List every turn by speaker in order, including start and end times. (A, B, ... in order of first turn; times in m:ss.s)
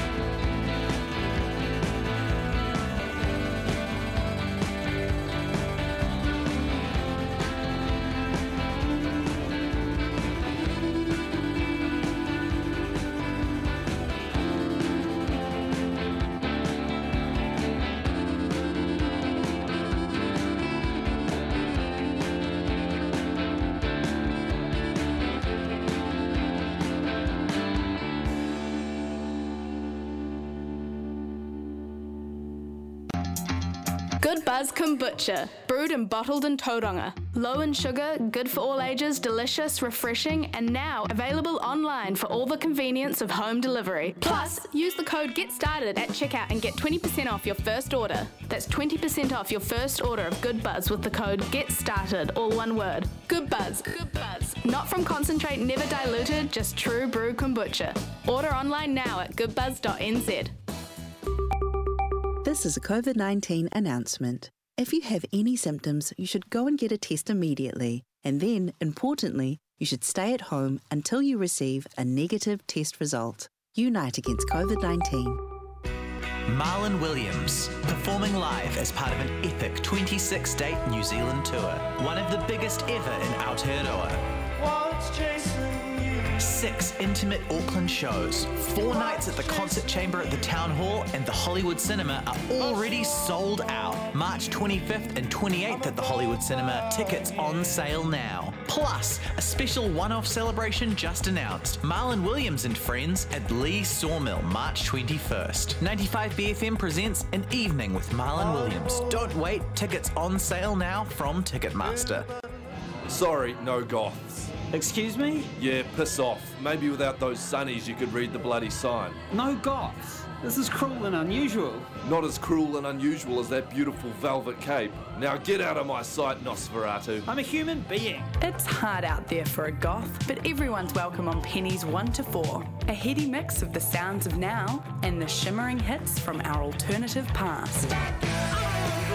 0:34.2-1:00.5 A
1:02.4-1:15.4 B
1:16.5-1:24.2 C
1:26.4-1:52.3 C
1:53.1-1:54.5 D
1:54.7-1:55.5 E
1:55.6-1:59.2 D
1:59.3-2:01.9 E
2:02.0-2:07.3 D
2:07.3-2:08.3 E
2:08.4-2:17.9 F